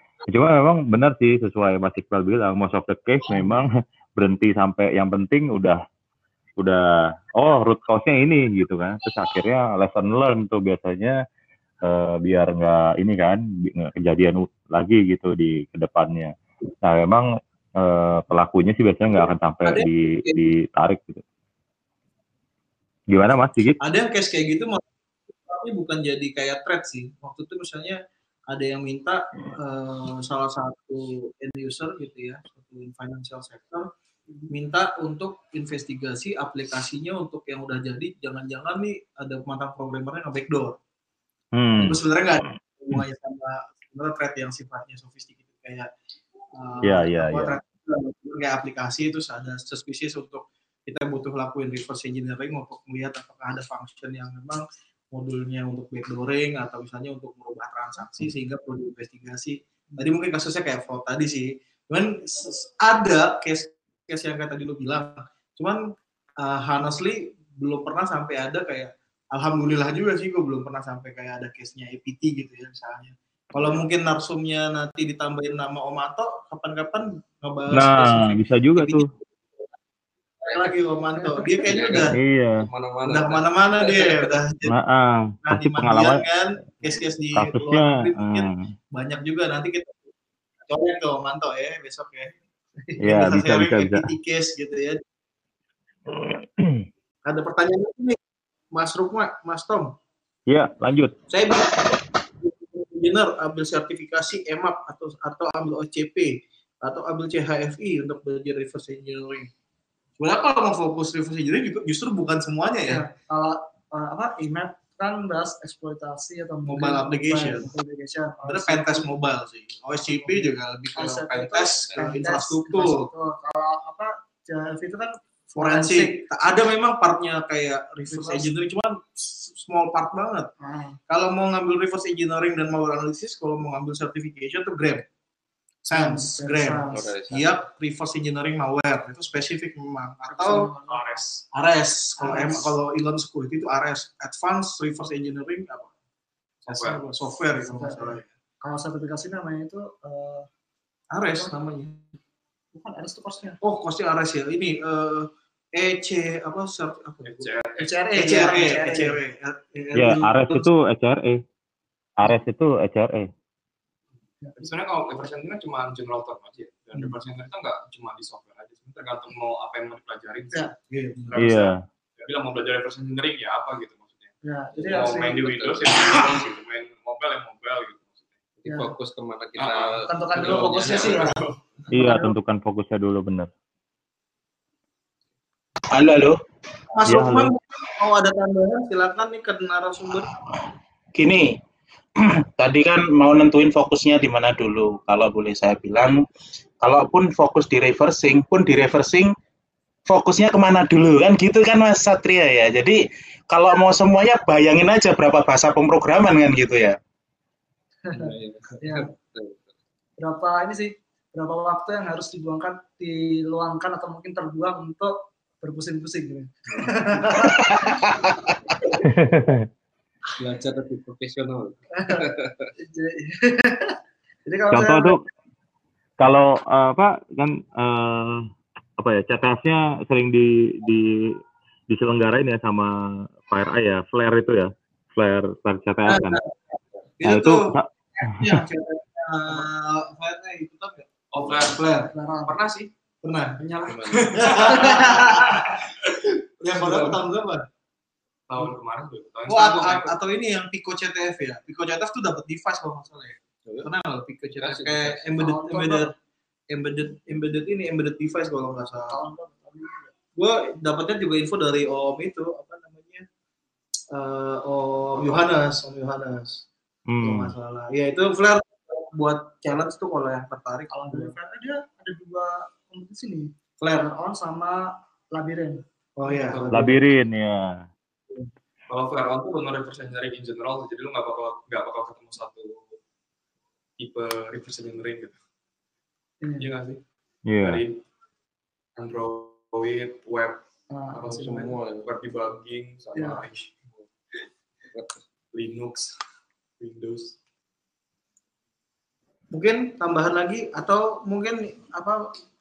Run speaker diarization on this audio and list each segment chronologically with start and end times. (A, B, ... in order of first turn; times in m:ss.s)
0:00.3-0:05.8 A
0:06.6-0:11.2 A
0:11.8-0:17.3 A
0:17.8-0:21.2 A
0:19.6-0:20.4 B
0:23.1-0:23.8 A
0:23.8-0:24.8 B
0:25.4-0:28.0 B
0:28.5-0:33.9 B
0:34.5-0:40.8 B
0:41.5-0:42.0 A
0:41.8-0:45.9 B
0:46.6-1:05.8 B
0:46.8-0:47.6 A
1:06.4-1:19.1 B
1:17.7-1:19.1 A
1:20.5-1:22.2 B
1:21.5-1:24.3 C
1:22.0-1:22.7 A
1:23.1-1:24.7 B
1:24.7-1:26.2 A
1:25.4-1:30.1 B
1:27.4-1:28.7 A
1:30.7-1:32.4 B
1:32.9-1:35.0 B
1:33.0-1:34.1 A
1:36.1-1:36.9 A
1:37.2-1:38.2 B
1:38.7-1:39.9 B
1:40.5-1:41.2 A
1:41.3-1:49.5 B
1:50.2-1:53.0 B
1:52.9-1:59.1 D
1:56.7-1:57.7 B
1:58.5-2:03.1 B
2:00.1-2:06.2 D
2:01.6-2:02.2 C
2:05.6-2:10.5 B
2:08.0-2:08.5 D
2:10.6-2:11.0 D
2:11.1-2:15.0 B
2:15.8-2:20.7 B
2:15.9-2:17.1 D
2:16.9-2:17.6 C
2:20.3-2:21.0 D
2:20.8-2:21.4 E
2:21.5-2:25.9 B
2:22.2-2:22.8 D
2:26.6-2:28.3 B
2:26.8-2:27.0 E
2:27.6-2:30.5 D
2:31.1-2:32.0 B
2:32.8-2:33.6 D
2:33.6-2:37.5 B
2:37.2-2:37.9 E
2:37.8-2:39.2 D
2:38.2-2:40.7 B
2:40.0-2:41.4 A
2:42.2-2:43.3 A
2:44.6-2:50.7 E
2:50.9-2:51.6 B
2:51.3-2:54.3 E
2:51.4-2:51.8 A
2:54.4-2:55.4 D
2:54.7-2:56.3 C
2:54.8-2:58.4 E
2:58.6-3:01.3 C
2:58.7-2:58.9 D
2:59.6-3:01.6 E
3:00.1-3:01.4 D
3:01.9-3:03.5 A
3:01.9-3:02.3 D
3:05.9-3:06.4 F
3:06.9-3:10.3 B
3:07.1-3:07.5 A
3:11.2-3:11.6 F
3:12.2-3:16.2 F
3:16.8-3:19.3 F
3:20.1-3:23.0 F
3:23.5-3:27.0 F
3:28.1-3:29.1 D
3:28.1-3:29.7 C
3:30.2-3:38.0 D
3:37.4-3:38.5 F
3:39.0-3:39.7 A
3:40.4-3:42.7 C
3:42.0-3:42.3 D
3:42.8-3:44.0 D
3:44.5-3:45.2 D
3:44.7-3:45.2 A
3:46.2-3:48.5 A
3:49.0-3:51.4 A
3:51.9-3:56.4 A
3:56.1-4:02.1 B
3:57.2-3:58.6 A
4:01.3-4:01.9 E
4:02.1-4:02.6 D
4:02.4-4:02.9 E
4:03.2-4:05.8 B
4:03.6-4:04.0 D
4:03.9-4:04.4 C
4:04.3-4:05.9 E
4:04.6-4:05.6 D
4:06.6-4:07.6 B
4:06.8-4:07.2 E
4:08.5-4:10.2 E
4:09.5-4:16.1 B
4:14.6-4:15.3 E
4:15.4-4:16.1 D
4:16.7-4:19.2 B
4:19.1-4:20.1 D
4:20.4-4:23.2 B
4:24.1-4:26.6 B
4:27.1-4:27.5 A
4:27.2-4:31.4 B
4:30.9-4:35.8 D
4:33.8-4:34.1 B
4:36.2-4:37.0 B
4:36.3-4:37.0 E
4:36.7-4:37.9 A
4:38.9-4:43.0 E
4:44.0-4:45.4 E
4:46.4-4:46.7 D
4:46.6-4:47.0 E
4:47.5-4:47.8 A
4:47.6-4:48.0 E
4:49.0-4:50.6 E
4:50.9-4:51.7 D
4:51.1-4:53.8 E
4:51.3-4:52.2 C
4:53.2-4:53.4 D
4:54.9-4:55.2 C
4:55.5-4:56.1 E
4:56.8-4:57.3 E
4:59.5-5:02.3 B